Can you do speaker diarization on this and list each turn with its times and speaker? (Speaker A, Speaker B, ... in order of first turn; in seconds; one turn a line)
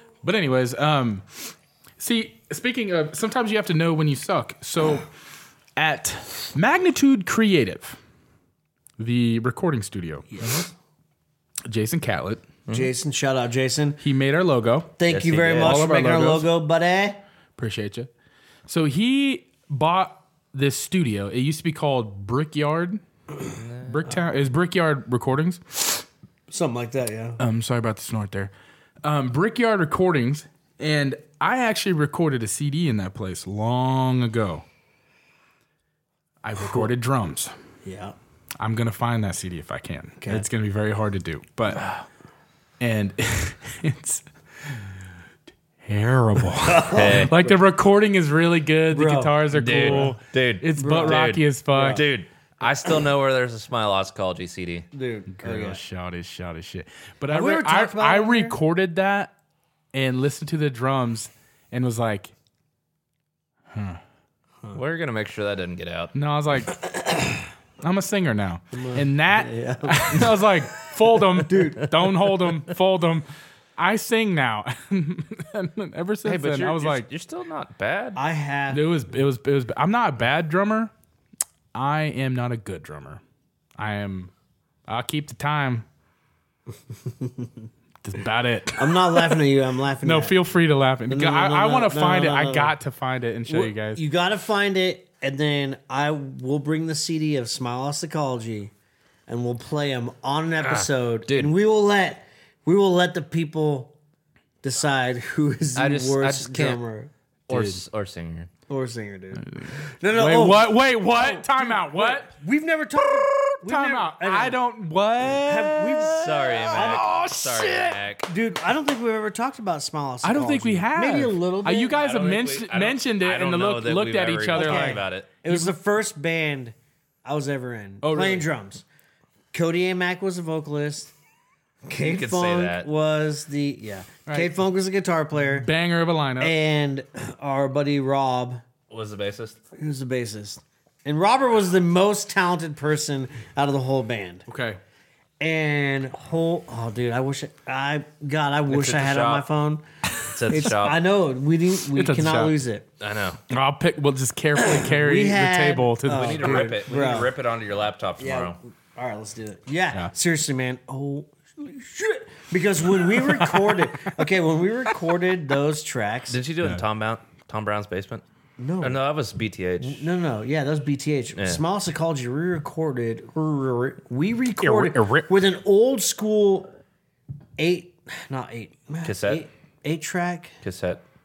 Speaker A: 0.2-5.1
Speaker A: 5.8-8.0
Speaker A: 9.0-10.4
Speaker B: 10.3-10.7
Speaker A: 11.7-12.5
Speaker B: 12.7-14.0
Speaker A: 14.0-14.9
Speaker B: 15.0-17.2
Speaker C: 15.1-15.8
Speaker A: 15.6-16.5
Speaker A: 17.6-18.1
Speaker A: 18.7-23.0
Speaker C: 23.6-24.1
Speaker A: 23.8-26.1
Speaker B: 26.5-27.4
Speaker A: 27.4-28.5
Speaker A: 29.0-34.6
Speaker A: 36.4-37.5
Speaker B: 37.9-38.2
Speaker A: 38.6-41.9
Speaker B: 40.2-40.5
Speaker A: 42.8-44.9
Speaker A: 45.8-52.0
Speaker B: 46.6-47.6
Speaker C: 46.9-47.4
Speaker B: 48.9-50.2
Speaker C: 49.5-54.9
Speaker B: 50.8-52.0
Speaker B: 54.9-55.8
Speaker A: 55.3-59.3
Speaker B: 57.3-58.6
Speaker A: 59.9-62.3
Speaker A: 63.7-64.0
Speaker C: 64.7-66.1
Speaker A: 66.1-66.8
Speaker A: 67.8-77.1
Speaker B: 68.7-70.5
Speaker B: 71.2-72.1
Speaker C: 76.2-78.2
Speaker B: 78.2-78.8
Speaker A: 78.7-80.9
Speaker A: 81.7-83.2
Speaker A: 83.8-84.3
Speaker A: 84.9-85.9
Speaker B: 86.9-87.7
Speaker A: 88.0-89.4
Speaker B: 88.8-90.4
Speaker A: 90.0-94.0
Speaker B: 91.1-92.8
Speaker B: 93.5-98.7
Speaker B: 99.3-103.9
Speaker C: 100.6-101.5
Speaker B: 104.6-107.1
Speaker C: 105.8-106.8
Speaker C: 107.5-108.5
Speaker A: 107.5-107.8
Speaker B: 108.7-114.6
Speaker A: 109.4-112.3
Speaker A: 113.0-118.0
Speaker B: 115.2-117.3
Speaker C: 116.2-118.3
Speaker B: 118.2-122.0
Speaker A: 120.2-125.7
Speaker C: 121.9-125.3
Speaker B: 124.5-128.8
Speaker A: 128.0-128.5
Speaker B: 129.5-131.1
Speaker B: 131.9-135.7
Speaker C: 132.0-132.9
Speaker A: 134.3-134.5
Speaker A: 135.5-136.6
Speaker B: 136.4-138.6
Speaker C: 138.9-139.6
Speaker B: 139.8-144.5
Speaker A: 144.5-144.8
Speaker B: 145.4-149.8
Speaker C: 148.7-149.5
Speaker C: 150.2-151.0
Speaker A: 150.2-150.6
Speaker B: 150.5-152.9
Speaker A: 151.9-152.6
Speaker C: 153.0-153.4
Speaker A: 153.5-156.8
Speaker B: 154.6-157.3
Speaker C: 156.1-158.6
Speaker B: 158.2-166.4
Speaker A: 163.0-164.1
Speaker C: 166.3-168.2
Speaker B: 168.6-169.0
Speaker C: 168.8-170.1
Speaker B: 169.8-176.7
Speaker A: 174.6-175.3
Speaker B: 177.6-180.6
Speaker C: 179.0-179.4
Speaker C: 180.6-181.0